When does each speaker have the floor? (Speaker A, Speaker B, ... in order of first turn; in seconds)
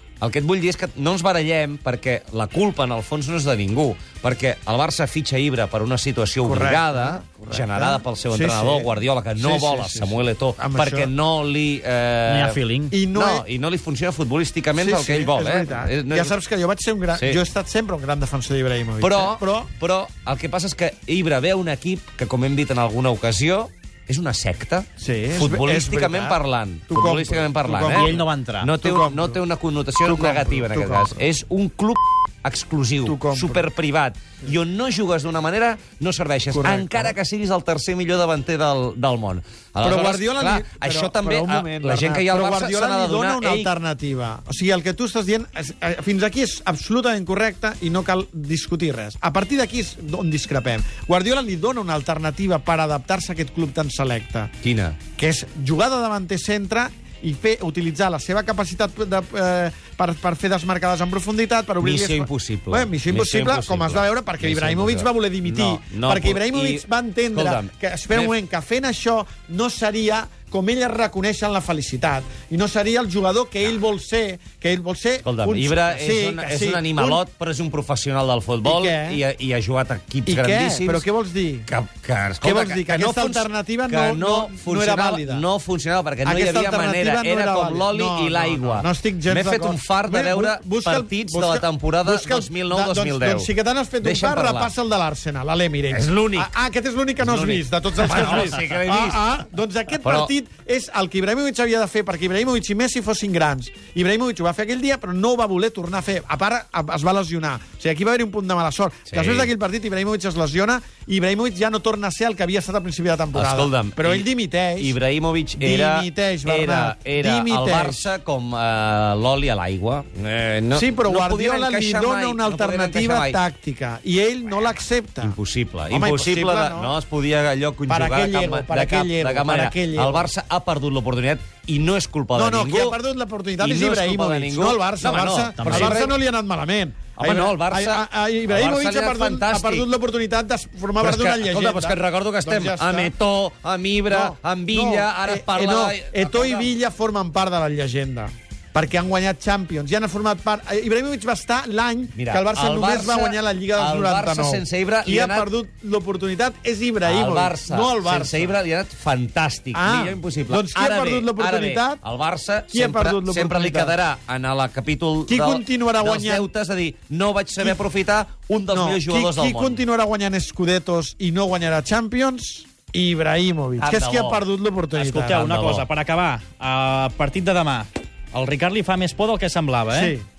Speaker A: 0.2-12.6, 13.1-16.4, 17.2-17.4, 19.0-43.7, 54.6-55.0, 61.8-68.3, 75.2-81.1, 81.7-94.7, 95.9-96.5, 97.2-99.2, 100.0-100.3, 109.1-109.5, 113.3-123.4, 125.2-133.0, 133.6-136.1, 137.2-139.9, 141.0-146.7, 152.2-155.5, 157.0-169.8, 173.8-174.4, 175.5-175.9
Speaker B: 6.4-11.1, 12.9-13.5, 14.8-19.7, 25.0-29.4, 30.0-31.2, 33.0-33.7, 36.5-37.1, 39.8-54.5, 55.2-77.2, 78.6-79.2, 80.3-81.7, 82.4-85.5, 86.2-115.0, 115.6-118.0, 120.7-125.4, 125.9-127.0, 127.9-130.3, 132.3-143.1, 144.1-158.6, 159.7-162.0, 162.7-164.0, 165.3-166.5, 168.7-175.5, 179.9-180.3
Speaker C: 12.3-12.9, 27.9-28.7, 135.6-136.1, 174.9-180.2